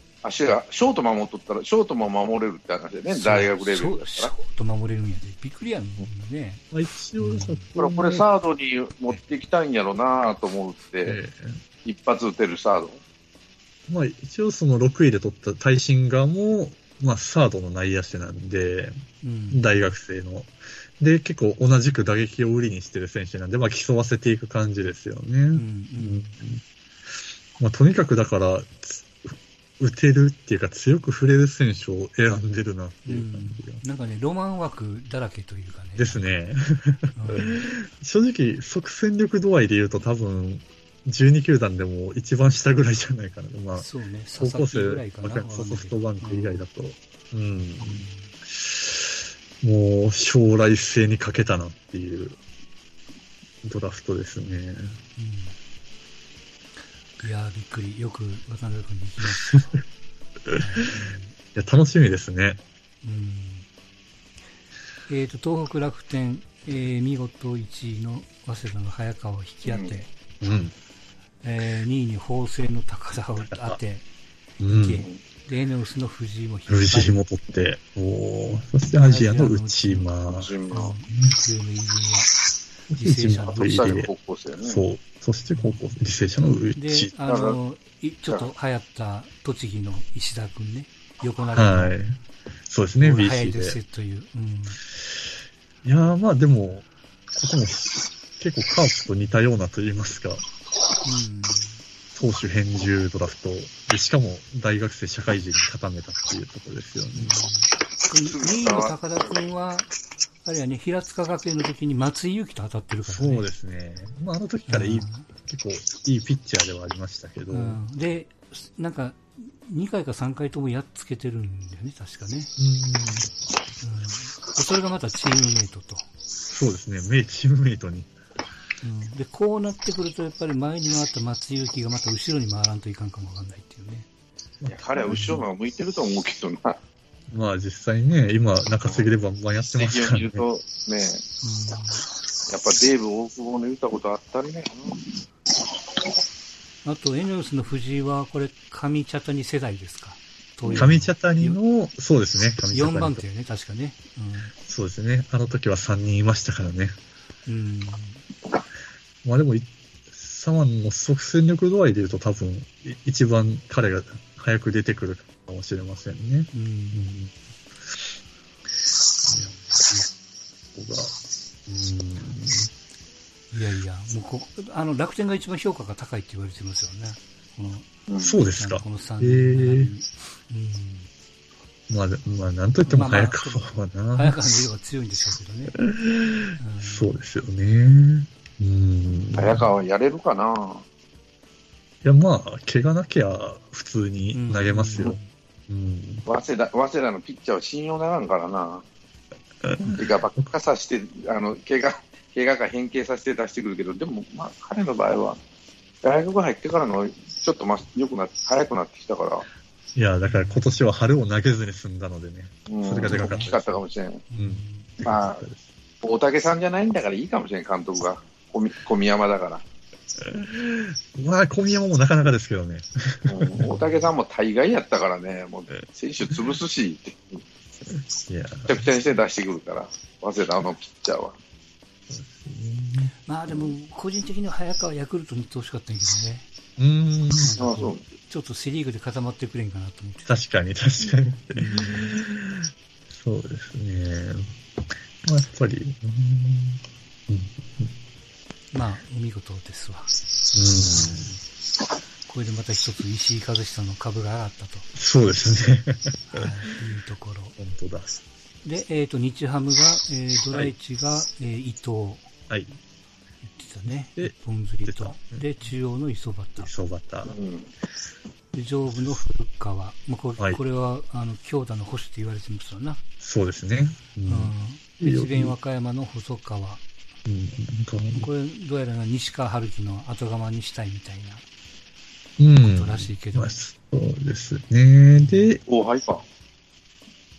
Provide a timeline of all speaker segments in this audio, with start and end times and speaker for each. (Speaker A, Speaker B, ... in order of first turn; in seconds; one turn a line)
Speaker A: 0.2-4.3
Speaker B: 3.1-6.6
Speaker C: 6.7-8.2
Speaker B: 7.2-7.7
Speaker A: 7.8-11.2
Speaker C: 11.0-11.6
Speaker A: 11.8-13.0
Speaker C: 13.9-19.0
Speaker B: 19.2-19.6
Speaker C: 19.5-26.6
Speaker B: 25.5-26.3
Speaker C: 27.6-29.1
Speaker C: 29.8-33.8
Speaker B: 33.1-36.2
Speaker C: 36.0-52.4
Speaker B: 37.2-37.6
Speaker B: 43.8-46.6
Speaker B: 47.8-48.3
Speaker C: 53.6-55.0
Speaker B: 55.2-55.5
Speaker B: 57.2-59.7
Speaker C: 59.2-59.6
Speaker C: 60.5-62.6
Speaker B: 60.6-61.4
Speaker B: 63.0-63.7
Speaker B: 65.1-70.1
Speaker A: 69.7-70.0
Speaker C: 70.4-70.7
Speaker B: 71.4-74.1
Speaker C: 73.4-73.8
Speaker C: 74.6-75.1
Speaker B: 74.7-77.2
Speaker C: 76.7-80.5
Speaker B: 79.0-80.1
Speaker A: 80.3-80.9
Speaker B: 80.7-82.3
Speaker C: 82.9-84.1
Speaker B: 82.9-84.0
Speaker A: 83.6-84.8
Speaker C: 84.6-87.1
Speaker B: 85.5-85.8
Speaker B: 86.8-92.0
Speaker A: 87.3-87.6
Speaker C: 91.5-93.8
Speaker B: 93.0-94.8
Speaker C: 95.8-96.8
Speaker C: 97.4-100.4
Speaker B: 101.0-101.8
Speaker C: 102.2-107.4
Speaker B: 107.2-109.9
Speaker A: 108.2-109.4
Speaker B: 110.4-113.5
Speaker C: 113.0-117.8
Speaker B: 114.7-115.3
Speaker B: 117.5-122.5
Speaker C: 122.6-123.3
Speaker B: 123.8-126.1
Speaker C: 126.5-128.1
Speaker B: 128.8-134.1
Speaker C: 134.6-135.4
Speaker A: 134.7-136.8
Speaker B: 135.1-135.4
Speaker C: 137.3-140.4
Speaker A: 138.8-139.1
Speaker A: 139.7-141.2
Speaker B: 141.4-142.0
Speaker A: 142.5-145.2
Speaker B: 146.8-151.6
Speaker A: 150.6-151.0
Speaker C: 150.8-153.2
Speaker B: 152.7-154.5
Speaker C: 154.7-157.0
Speaker B: 157.5-158.2
Speaker C: 159.2-167.3
Speaker B: 166.5-167.0
Speaker C: 169.3-170.1
Speaker C: 170.7-171.2
Speaker C: 171.7-172.7
Speaker B: 173.5-177.9
Speaker A: 178.1-178.4
Speaker C: 178.2-179.9
Speaker B: 178.6-181.1
Speaker C: 181.9-184.4
Speaker B: 182.8-185.8
Speaker C: 185.8-189.7
Speaker B: 186.6-187.1
Speaker A: 189.4-190.8
Speaker C: 192.0-196.3
Speaker B: 194.3-195.3
Speaker A: 196.3-198.8
Speaker C: 199.6-200.0
Speaker A: 199.9-205.4
Speaker A: 206.0-209.5
Speaker C: 209.9-213.8
Speaker B: 210.2-210.8
Speaker A: 212.7-214.2
Speaker B: 213.1-213.6
Speaker B: 214.3-214.9
Speaker C: 214.4-215.7
Speaker A: 215.0-215.4
Speaker A: 216.0-219.6
Speaker C: 220.2-223.8
Speaker A: 223.3-227.4
Speaker B: 223.7-224.1
Speaker C: 228.3-228.8
Speaker A: 228.7-231.4
Speaker C: 232.1-233.1
Speaker B: 233.3-236.5
Speaker C: 236.8-237.6
Speaker B: 237.4-240.3
Speaker A: 237.6-238.0
Speaker C: 240.3-244.5
Speaker B: 241.5-242.2
Speaker C: 245.2-247.9
Speaker B: 248.7-250.1
Speaker C: 250.5-251.4
Speaker B: 250.8-251.2
Speaker B: 252.3-254.9
Speaker C: 254.9-256.5
Speaker B: 256.3-257.6
Speaker C: 257.6-258.1
Speaker B: 258.6-262.3
Speaker C: 262.5-262.8
Speaker B: 263.4-266.7
Speaker C: 264.2-265.4
Speaker C: 266.6-267.4
Speaker A: 267.3-267.7
Speaker B: 268.5-273.0
Speaker C: 273.2-275.6
Speaker B: 274.3-276.8
Speaker C: 277.3-278.3
Speaker B: 278.1-281.4
Speaker C: 282.4-285.6
Speaker B: 282.6-283.5
Speaker B: 285.2-285.5
Speaker A: 285.7-286.2